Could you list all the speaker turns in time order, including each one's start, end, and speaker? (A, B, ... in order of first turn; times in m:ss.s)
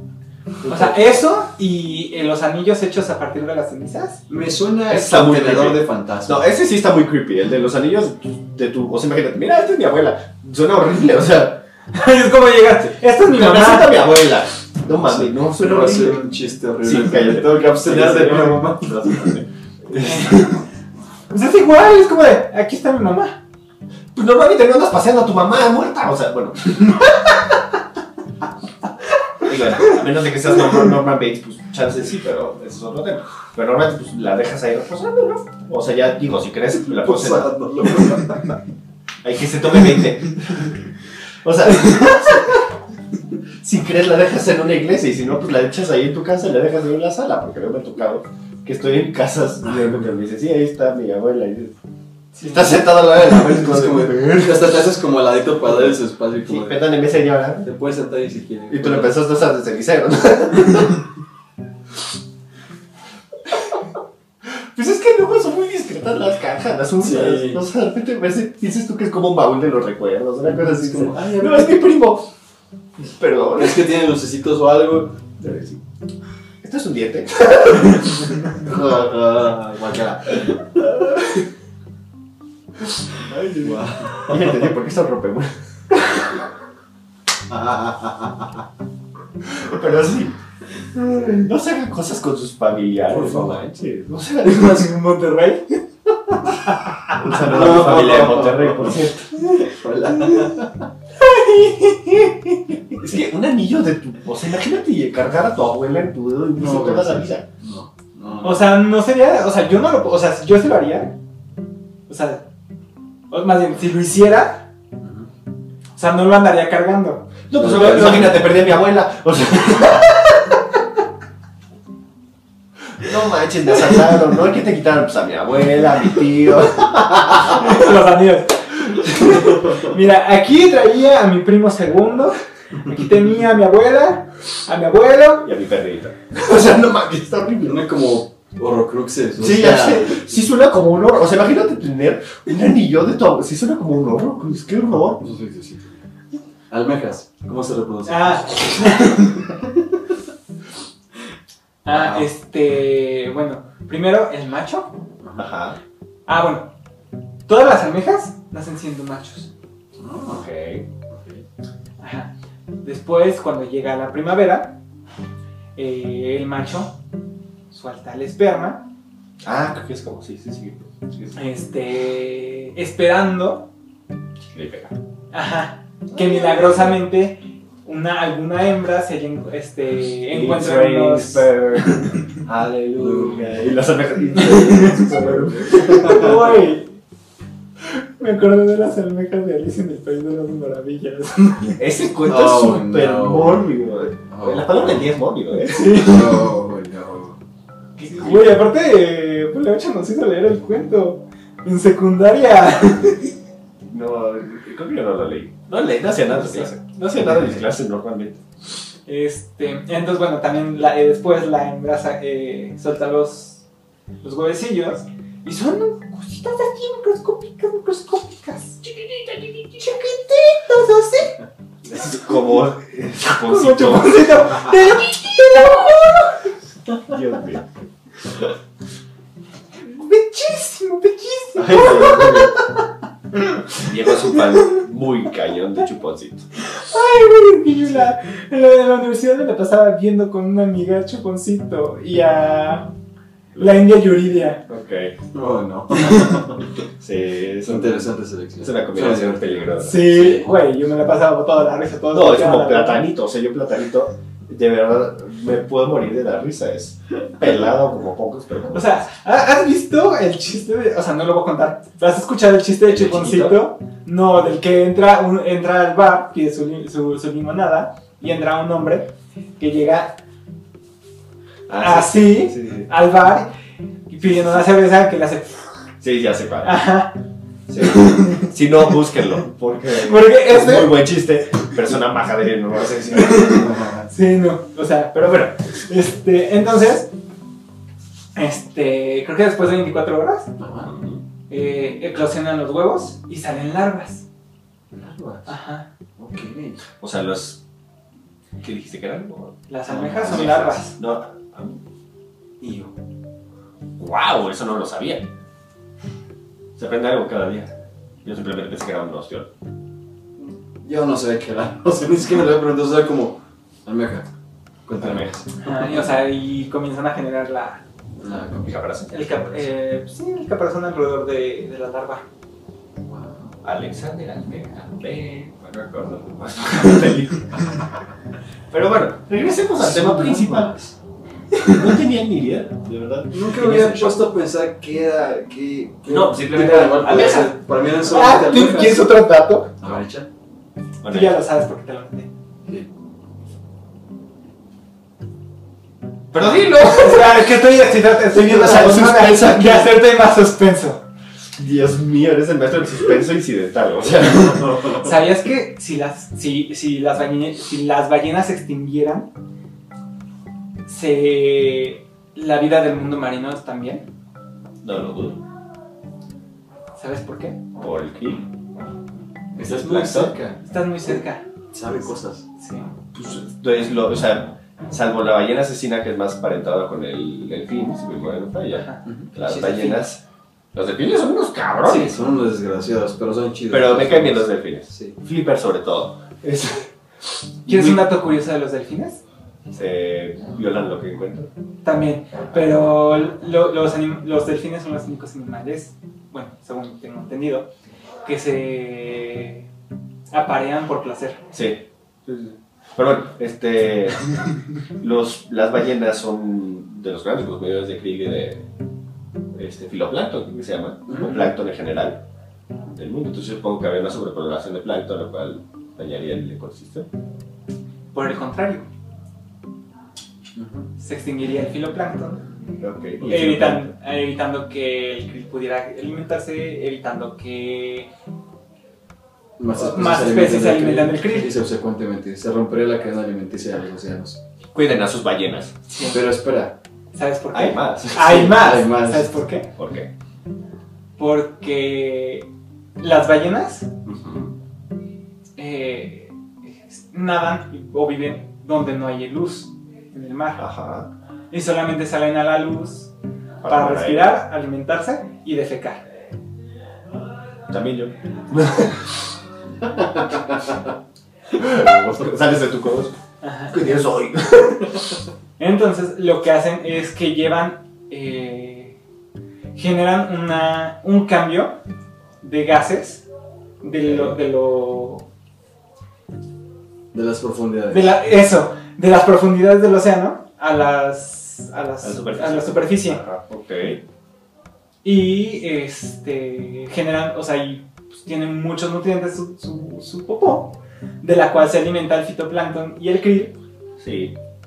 0:00.6-0:01.2 A
0:00.7-0:04.2 B
0:04.3-0:06.4 C
0:04.9-0:11.6 A
0:11.9-0:14.1 B
0:13.2-0:16.3 A
0:15.0-0:19.3 C
0:16.8-0:20.5 A
0:20.0-0:20.6 B
0:21.3-0:23.4 B
0:24.1-0:27.0 A
0:29.4-0:38.2 A
0:37.0-0:38.5 C
0:39.2-0:40.8 A
0:41.4-0:42.6 A
0:43.6-0:51.8 A
0:52.4-0:52.6 B
0:52.4-0:54.8 A
0:52.8-0:56.8 C
0:56.4-0:57.7 A
0:57.6-0:59.2 C
0:58.7-1:01.0 A
1:04.4-1:12.3 A
1:07.0-1:07.6 C
1:10.4-1:11.9 C
1:13.0-1:13.9 A
1:13.6-1:15.1 C
1:15.4-1:15.8 A
1:16.6-1:18.9 A
1:18.6-1:21.0 C
1:23.2-1:26.3 A
1:23.6-1:24.6 C
1:27.5-1:28.5 C
1:29.4-1:30.4 A
1:31.2-1:34.9 A
1:33.1-1:33.5 C
1:34.4-1:35.8 B
1:36.4-1:37.0 B
1:37.2-1:39.3 A
1:37.2-1:40.9 C
1:41.5-1:42.2 B
1:42.9-1:47.4 A
1:46.6-1:48.8 C
1:48.4-1:51.2 B
1:52.1-1:52.5 B
1:53.3-1:54.7 B
1:55.0-1:55.3 C
1:56.0-1:58.3 B
1:57.5-2:00.4 A
1:57.5-1:58.5 C
2:03.0-2:07.9 A
2:07.4-2:15.5 B
2:15.4-2:17.8 A
2:17.7-2:20.3 C
2:19.4-2:25.2 A
2:25.2-2:25.9 C
2:26.7-2:30.0 C
2:28.1-2:29.5 B
2:31.8-2:34.9 B
2:31.9-2:32.3 C
2:35.2-2:35.5 C
2:35.4-2:35.8 A
2:36.3-2:36.7 B
2:37.5-2:39.5 B
2:40.0-2:40.5 C
2:40.3-2:40.8 A
2:41.1-2:41.4 C
2:42.0-2:42.3 B
2:42.8-2:44.8 B
2:45.8-2:46.9 B
2:47.7-2:48.8 B
2:49.4-2:51.4 A
2:51.4-2:53.7 B
2:54.5-2:54.9 A
2:55.3-3:02.3 B
2:56.1-2:57.0 A
3:00.3-3:06.4 A
3:03.0-3:03.7 C
3:04.4-3:05.1 B
3:04.8-3:06.5 C
3:05.7-3:07.0 B
3:07.9-3:11.8 B
3:11.8-3:16.0 A
3:12.2-3:13.7 C
3:14.3-3:15.1 C
3:15.5-3:16.5 B
3:15.9-3:17.4 C
3:18.0-3:18.6 A
3:18.2-3:23.3 B
3:23.9-3:28.4 A
3:26.4-3:26.7 B
3:29.1-3:33.6 B
3:34.2-3:41.4 B
3:41.8-3:44.5 A
3:43.3-3:46.5 B
3:47.1-3:47.7 A
3:49.8-3:52.6 B
3:51.6-3:52.5 A
3:53.3-3:54.8 B
3:53.8-3:56.5 A
3:56.7-4:02.9 B
4:03.6-4:03.8 A
4:03.6-4:04.6 B
4:04.7-4:05.2 A
4:05.3-4:06.7 C
4:07.0-4:10.1 A
4:07.6-4:10.5 C
4:09.8-4:13.0 B
4:12.1-4:19.0 A
4:18.7-4:30.2 B
4:22.8-4:23.6 A
4:31.7-4:32.9 A
4:31.8-4:33.5 B
4:34.1-4:35.6 B
4:34.3-4:34.6 A
4:36.0-4:36.8 A
4:36.6-4:37.2 B
4:37.7-4:43.7 A
4:37.8-4:38.9 B
4:39.9-4:41.0 B
4:43.1-4:47.1 B
4:43.5-4:44.1 C
4:48.4-4:50.5 B
4:50.6-4:50.9 C
4:50.8-4:51.2 A
4:51.5-4:54.3 B
4:54.9-4:55.5 C
4:55.5-4:55.9 B
4:56.2-4:56.8 C
4:57.0-4:57.6 A
4:58.6-5:01.8 A
4:59.7-5:01.0 B
4:59.9-5:00.5 C
5:02.6-5:02.9 C
5:04.0-5:05.3 A
5:06.8-5:07.7 A
5:08.2-5:09.5 A
5:10.4-5:14.3 C
5:14.9-5:16.1 C
5:15.0-5:15.4 A
5:15.6-5:17.8 B
5:18.2-5:18.8 C
5:18.6-5:19.7 A
5:19.1-5:22.2 B
5:23.1-5:23.6 C
5:23.6-5:27.9 A
5:28.7-5:30.8 A
5:29.8-5:30.8 C
5:31.7-5:34.2 A
5:33.3-5:39.1 C
5:36.1-5:37.5 A
5:37.0-5:37.5 B
5:38.1-5:39.7 B
5:39.8-5:40.3 C
5:41.0-5:41.4 A
5:41.1-5:42.3 B
5:46.3-5:47.6 A
5:46.4-5:51.0 B
5:48.3-5:50.0 A
5:51.6-5:55.1 A
5:54.9-5:59.3 B
6:00.9-6:04.1 B
6:04.8-6:05.4 A
6:07.0-6:07.6 B
6:07.8-6:08.4 A
6:09.6-6:10.6 C
6:09.6-6:10.4 A
6:10.6-6:11.5 B
6:11.7-6:12.4 C
6:12.6-6:12.9 B
6:13.1-6:20.2 A
6:18.8-6:20.1 B
6:20.7-6:22.2 A
6:21.8-6:25.2 C
6:23.7-6:26.9 A
6:27.6-6:28.0 A
6:27.7-6:29.2 B
6:29.7-6:31.5 A
6:31.8-6:37.7 B
6:38.2-6:39.6 B
6:40.3-6:41.4 B
6:41.5-6:44.3 A
6:45.0-6:48.7 A
6:49.6-6:52.2 A
6:51.1-6:51.5 C
6:52.8-6:57.1 A
6:58.1-6:58.9 B
7:00.6-7:00.9 C
7:01.0-7:02.5 B
7:02.8-7:03.9 A
7:03.2-7:08.1 B
7:09.6-7:14.4 C
7:09.8-7:11.5 B
7:14.7-7:15.8 A
7:15.9-7:16.2 B
7:16.1-7:16.8 C
7:17.1-7:19.7 B
7:17.5-7:18.5 A
7:18.2-7:19.4 C
7:19.8-7:20.1 A
7:21.2-7:22.5 B
7:23.0-7:23.9 B
7:24.0-7:24.5 A
7:25.6-7:30.6 B
7:30.6-7:31.1 A
7:31.5-7:33.1 B
7:33.6-7:34.4 A
7:33.6-7:36.0 B
7:37.7-7:39.2 A
7:40.0-7:40.7 C
7:41.5-7:43.2 A
7:43.4-7:44.0 B
7:43.7-7:45.2 A
7:45.6-7:49.0 B
7:49.8-7:51.8 B
7:52.4-7:53.3 B
7:53.8-7:55.3 B
7:54.1-7:54.3 A
7:57.1-7:58.2 C
7:57.9-8:03.2 B
8:02.0-8:04.0 A
8:05.0-8:13.6 B
8:14.0-8:14.4 A